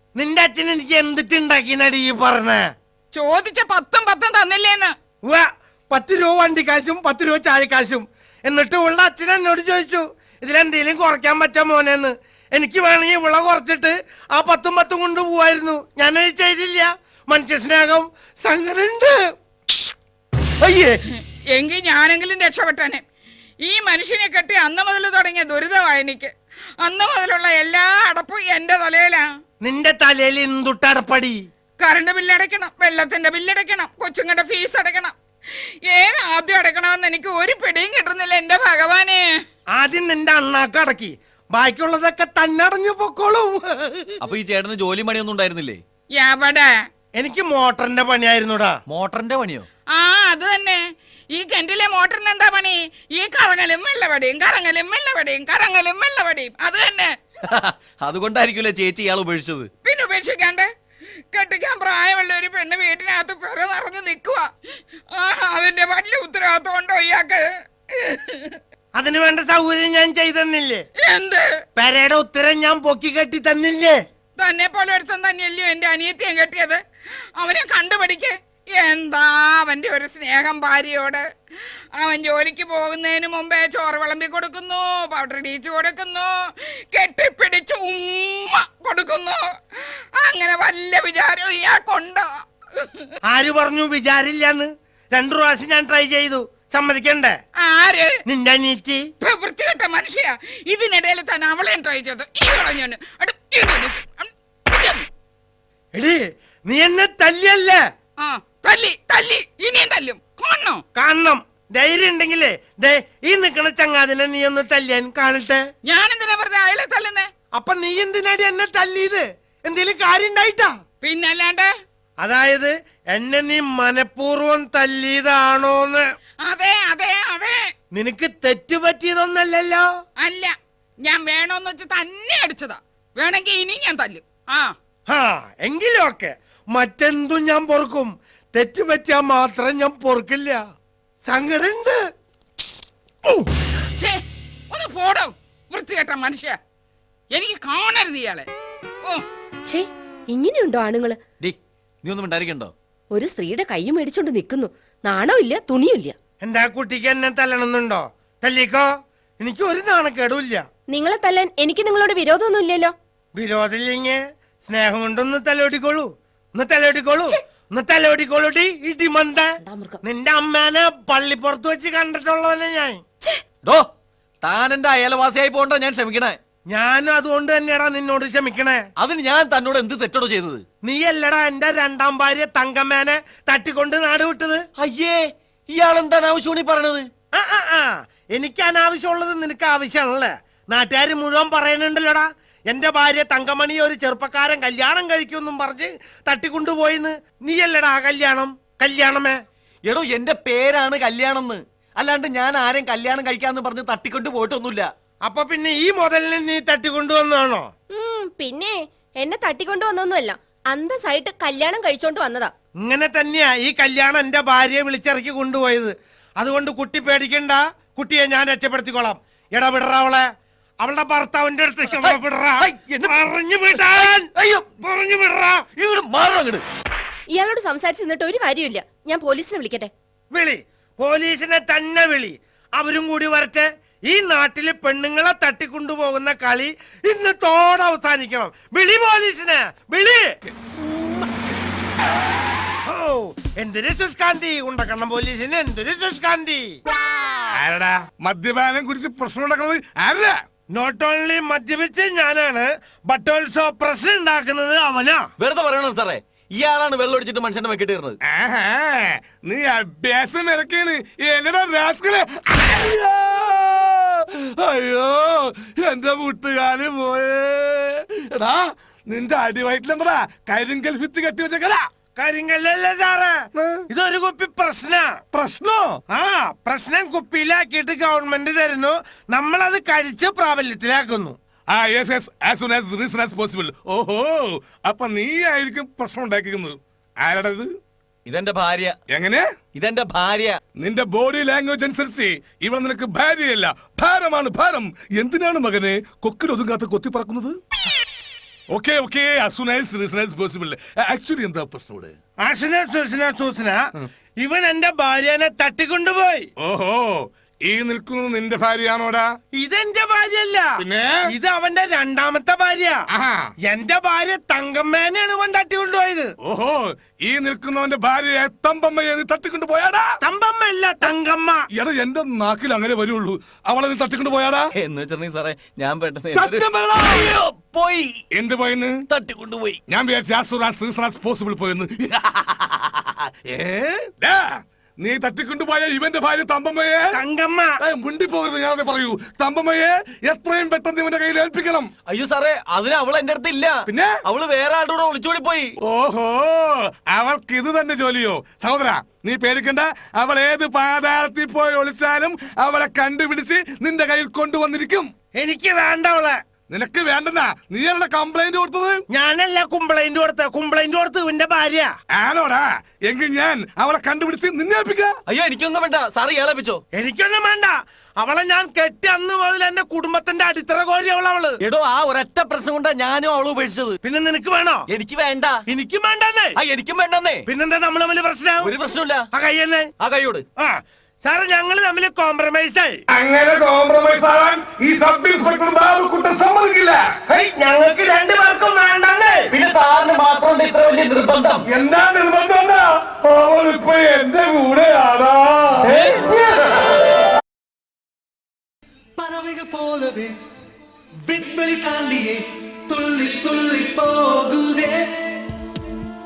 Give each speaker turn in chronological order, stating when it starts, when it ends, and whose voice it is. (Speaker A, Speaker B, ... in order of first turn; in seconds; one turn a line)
Speaker A: 0.1-2.6
Speaker B: 3.1-4.9
Speaker A: 5.3-19.2
Speaker A: 20.6-20.9
Speaker B: 21.2-23.0
Speaker B: 23.6-26.3
Speaker B: 26.8-29.2
Speaker A: 29.6-31.4
Speaker B: 31.8-35.1
Speaker B: 35.9-39.2
Speaker A: 39.7-44.2
Speaker C: 44.2-45.8
Speaker B: 46.2-46.7
Speaker A: 47.2-48.8
Speaker C: 48.9-49.7
Speaker B: 49.9-50.8
Speaker B: 51.3-57.1
Speaker C: 57.5-59.7
Speaker B: 59.8-60.7
Speaker B: 61.3-64.4
Speaker B: 65.2-67.4
Speaker B: 68.0-68.6
Speaker A: 69.0-70.8
Speaker B: 71.0-71.4
Speaker A: 71.8-74.0
Speaker B: 74.4-76.8
Speaker B: 77.4-81.2
Speaker B: 82.0-86.3
Speaker B: 86.9-93.1
Speaker A: 93.3-97.4
Speaker B: 97.6-98.1
Speaker A: 98.3-99.0
Speaker B: 99.2-105.0
Speaker A: 105.9-107.8
Speaker B: 108.2-110.8
Speaker A: 110.9-115.6
Speaker B: 115.8-117.3
Speaker A: 117.5-120.7
Speaker B: 121.0-121.7
Speaker A: 122.2-126.0
Speaker B: 126.4-127.6
Speaker A: 127.9-129.9
Speaker B: 130.2-130.5
Speaker B: 131.0-134.7
Speaker A: 135.1-140.6
Speaker A: 141.2-142.0
Speaker B: 144.7-146.6
Speaker B: 147.3-148.4
Speaker D: 149.7-151.2
Speaker C: 151.4-152.7
Speaker D: 153.1-156.2
Speaker A: 156.4-158.9
Speaker A: 159.4-160.6
Speaker D: 160.9-162.9
Speaker A: 163.3-169.5
Speaker D: 169.6-170.0
Speaker A: 170.0-173.0
Speaker C: 174.4-176.4
Speaker A: 176.7-178.8
Speaker C: 179.0-180.6
Speaker A: 180.8-184.6
Speaker C: 184.8-187.0
Speaker A: 187.3-199.4
Speaker C: 199.8-204.9
Speaker A: 205.2-207.7
Speaker D: 207.9-212.5
Speaker A: 212.8-220.2
Speaker A: 220.8-225.7
Speaker C: 221.9-223.2
Speaker C: 223.7-224.8
Speaker C: 225.8-226.6
Speaker D: 227.3-229.9
Speaker A: 230.3-240.3
Speaker A: 242.8-246.8
Speaker E: 247.5-250.4
Speaker A: 250.7-255.2
Speaker C: 255.4-258.2
Speaker E: 258.2-271.8
Speaker A: 272.2-273.4
Speaker E: 273.6-273.8
Speaker A: 273.9-275.1
Speaker E: 275.3-276.0
Speaker A: 276.1-281.4
Speaker E: 281.7-287.7
Speaker C: 288.3-288.9
Speaker E: 289.1-289.4
Speaker C: 289.7-290.6
Speaker E: 290.8-297.6
Speaker E: 298.7-302.1
Speaker A: 302.4-303.8
Speaker A: 304.4-306.5
Speaker E: 306.6-309.3
Speaker A: 309.6-310.7
Speaker E: 310.8-311.2
Speaker A: 311.3-313.0
Speaker E: 313.1-313.5
Speaker A: 313.6-316.3
Speaker E: 316.4-320.1
Speaker A: 320.2-321.6
Speaker E: 321.7-324.7
Speaker C: 324.8-328.2
Speaker E: 326.3-327.3
Speaker E: 328.3-329.0
Speaker C: 329.1-329.8
Speaker E: 329.9-332.6
Speaker E: 333.5-334.4
Speaker E: 335.0-337.2
Speaker A: 337.1-337.7
Speaker E: 337.8-341.9
Speaker C: 342.1-345.7
Speaker E: 343.9-344.2
Speaker E: 345.8-355.1
Speaker A: 355.3-356.4
Speaker E: 356.7-359.0
Speaker A: 359.1-361.9
Speaker E: 362.1-365.1
Speaker C: 365.3-366.8
Speaker A: 366.9-371.6
Speaker C: 371.6-374.0
Speaker A: 374.0-374.8
Speaker C: 374.9-375.6
Speaker A: 375.7-376.5
Speaker C: 376.6-377.4
Speaker A: 377.5-378.7
Speaker C: 378.6-379.3
Speaker A: 379.3-379.9
Speaker C: 380.0-380.4
Speaker A: 380.6-383.0
Speaker E: 383.1-387.3
Speaker A: 387.3-389.5
Speaker C: 389.5-391.6
Speaker E: 391.7-396.6
Speaker F: 399.2-400.4
Speaker F: 401.2-405.3